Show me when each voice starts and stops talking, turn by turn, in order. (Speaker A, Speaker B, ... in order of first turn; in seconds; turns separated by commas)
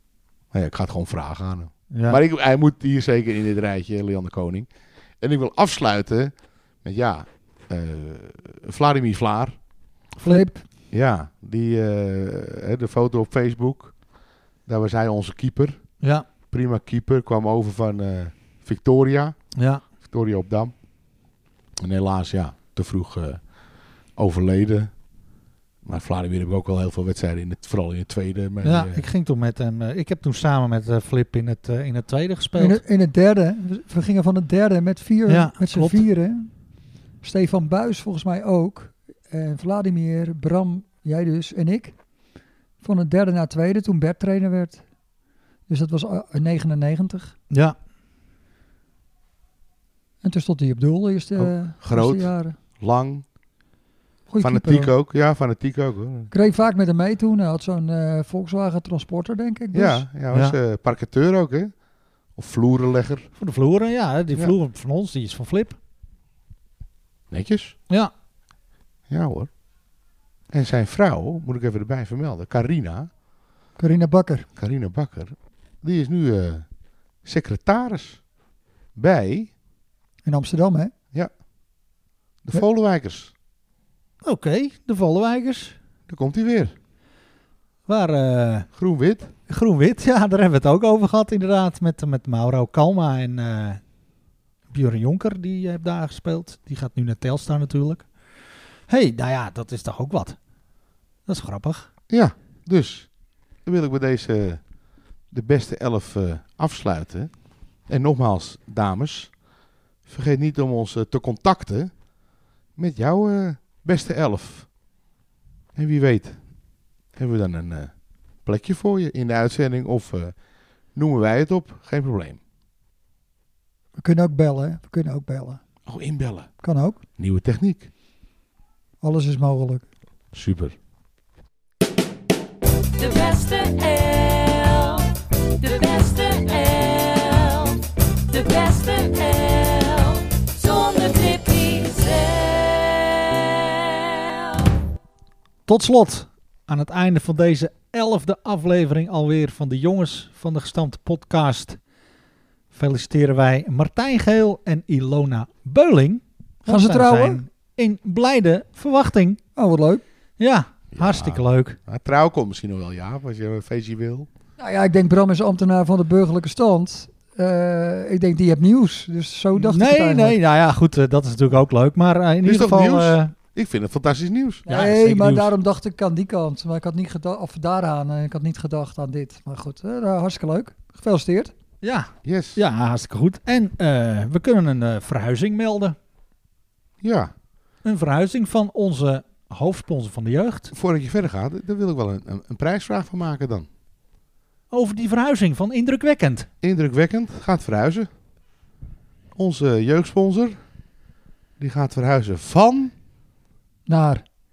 Speaker A: 0.5-4.7, Speaker B: 1.9-2.2, Speaker A: 5.2-9.6, Speaker B: 10.2-10.5, Speaker C: 10.2-10.7, Speaker A: 10.9-14.0, Speaker A: 14.7-15.9, Speaker B: 16.0-16.3, Speaker A: 16.5-19.4, Speaker B: 19.6-19.8, Speaker A: 20.0-20.7, Speaker A: 21.8-23.5, Speaker A: 24.2-24.9, Speaker A: 25.8-29.0, Speaker B: 28.6-32.8, Speaker C: 32.6-36.5, Speaker B: 35.3-36.1, Speaker C: 37.2-42.0, Speaker C: 42.8-44.8, Speaker C: 45.7-47.3, Speaker C: 50.2-52.6, Speaker A: 51.4-53.2, Speaker C: 54.3-54.9, Speaker A: 54.4-56.3, Speaker C: 56.3-60.0, Speaker A: 59.7-61.7, Speaker B: 60.3-60.6, Speaker A: 62.4-63.3, Speaker B: 63.4-65.8, Speaker A: 67.3-67.8, Speaker A: 69.1-69.5, Speaker A: 70.5-73.1, Speaker C: 73.8-74.5, Speaker A: 74.6-76.7, Speaker A: 77.2-78.2, Speaker A: 79.0-79.5, Speaker C: 80.2-80.9, Speaker A: 82.4-83.3, Speaker B: 84.2-85.8, Speaker A: 86.1-86.8, Speaker B: 87.9-88.7, Speaker A: 88.7-89.3, Speaker B: 89.5-93.8, Speaker B: 94.7-98.1, Speaker B: 98.9-100.4, Speaker B: 101.3-101.9, Speaker A: 102.1-103.1, Speaker A: 103.6-104.6, Speaker A: 105.3-107.3, Speaker A: 107.9-109.4, Speaker A: 110.1-111.9, Speaker A: 112.8-114.7, Speaker A: 115.8-116.4, Speaker A: 117.2-117.9, Speaker A: 118.5-120.3, Speaker A: 120.9-122.4, Speaker C: 124.0-125.6, Speaker A: 125.9-126.5, Speaker C: 126.6-127.0, Speaker A: 127.2-127.9, Speaker C: 129.0-129.8, Speaker A: 130.3-130.8, Speaker D: 133.0-144.6, Speaker B: 145.7-151.8, Speaker B: 152.7-159.4, Speaker C: 156.7-157.4, Speaker C: 159.6-160.0, Speaker B: 160.4-161.8, Speaker A: 160.9-164.3, Speaker C: 164.6-170.4, Speaker B: 169.6-173.3, Speaker A: 172.4-174.7, Speaker C: 174.7-181.5, Speaker B: 174.7-175.5, Speaker B: 181.8-186.0, Speaker A: 182.2-182.6, Speaker A: 187.0-187.3, Speaker B: 187.8-190.7, Speaker A: 190.7-193.7, Speaker B: 194.7-196.5, Speaker A: 196.6-198.1, Speaker A: 199.3-200.6, Speaker A: 201.6-202.9, Speaker C: 203.9-204.2